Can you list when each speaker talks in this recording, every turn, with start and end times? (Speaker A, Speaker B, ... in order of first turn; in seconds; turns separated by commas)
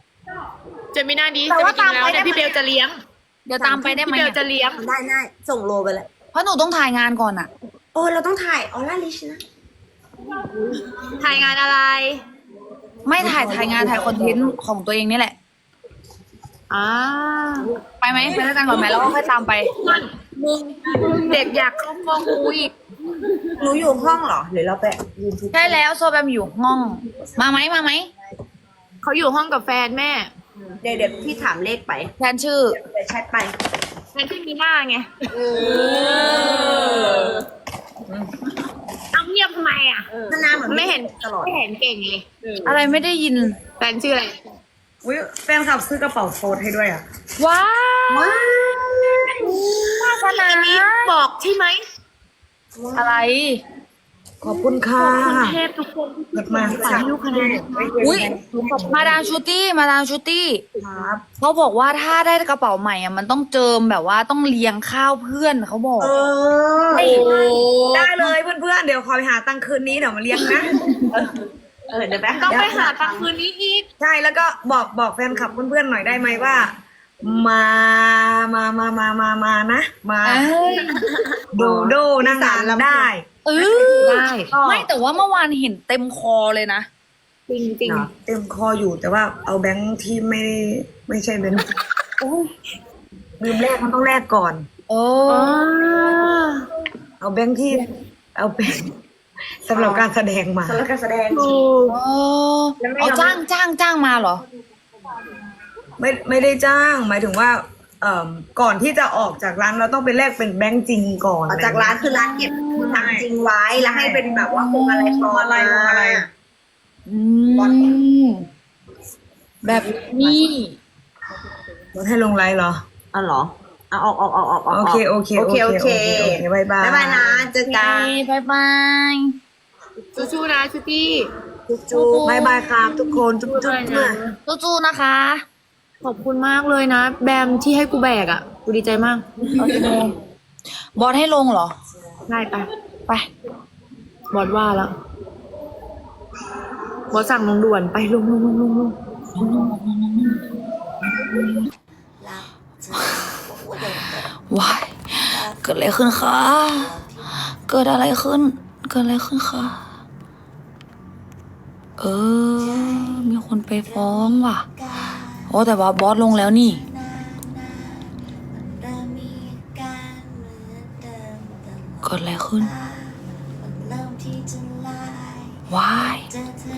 Speaker A: 0.9-3.0, Speaker B: 1.5-2.5, Speaker C: 3.5-4.4, Speaker B: 3.6-3.9, Speaker A: 3.9-4.8, Speaker B: 4.7-6.1, Speaker C: 6.3-7.5, Speaker B: 7.9-9.4, Speaker A: 11.2-12.2, Speaker C: 13.1-15.3, Speaker B: 13.2-14.5, Speaker A: 16.7-17.7, Speaker C: 18.0-19.7, Speaker A: 19.8-22.7, Speaker B: 23.6-25.8, Speaker C: 25.5-28.1, Speaker A: 29.0-30.3, Speaker B: 30.8-32.1, Speaker C: 32.2-32.8, Speaker B: 32.7-33.5, Speaker A: 34.1-35.1, Speaker B: 35.3-37.2, Speaker C: 35.7-37.4, Speaker A: 36.4-36.9, Speaker A: 39.1-40.1, Speaker B: 40.3-41.5, Speaker A: 40.6-42.3, Speaker C: 42.6-43.6, Speaker A: 43.8-44.4, Speaker D: 45.0-47.0, Speaker C: 47.4-48.5, Speaker B: 48.1-49.6, Speaker C: 49.9-51.2, Speaker A: 50.2-51.8, Speaker B: 52.8-53.1, Speaker C: 53.0-53.6, Speaker D: 54.4-55.6, Speaker A: 54.8-58.0, Speaker D: 56.3-59.1, Speaker B: 56.6-59.1, Speaker C: 58.0-60.6, Speaker B: 60.8-61.2, Speaker C: 61.4-66.2, Speaker B: 66.0-67.3, Speaker A: 66.9-68.3, Speaker C: 66.9-67.3, Speaker D: 67.9-70.7, Speaker C: 70.4-71.0, Speaker B: 71.9-73.3, Speaker A: 72.4-73.9, Speaker D: 74.0-80.5, Speaker C: 80.2-81.0, Speaker D: 81.5-83.3, Speaker B: 81.6-83.1, Speaker C: 83.5-86.9, Speaker B: 83.7-84.8, Speaker A: 83.8-84.5, Speaker A: 87.5-88.1, Speaker D: 88.2-91.7, Speaker D: 93.4-94.7, Speaker C: 94.9-95.6, Speaker A: 95.3-96.7, Speaker D: 97.2-98.9, Speaker D: 99.7-100.8, Speaker B: 99.7-100.1, Speaker B: 100.7-101.7, Speaker A: 101.3-102.0, Speaker C: 101.9-104.4, Speaker B: 102.8-103.4, Speaker D: 106.0-112.0, Speaker B: 111.5-116.3, Speaker C: 112.0-113.2, Speaker D: 112.8-114.2, Speaker C: 113.9-115.3, Speaker D: 115.2-116.3, Speaker C: 117.1-118.5, Speaker C: 119.6-120.8, Speaker D: 122.0-122.8, Speaker B: 123.1-128.2, Speaker D: 124.7-127.5, Speaker C: 127.6-129.3, Speaker A: 130.2-131.3, Speaker C: 131.9-132.7, Speaker D: 131.9-134.2, Speaker B: 131.9-132.2, Speaker A: 132.8-134.4, Speaker C: 134.5-135.4, Speaker A: 136.0-139.2, Speaker C: 139.6-140.2, Speaker C: 141.0-141.8, Speaker A: 142.3-142.7, Speaker A: 144.3-144.9, Speaker A: 147.1-149.0, Speaker C: 149.3-150.5, Speaker C: 152.9-157.0, Speaker C: 157.6-159.8, Speaker C: 162.0-164.7, Speaker C: 165.3-166.9, Speaker C: 172.0-172.7, Speaker C: 175.7-176.3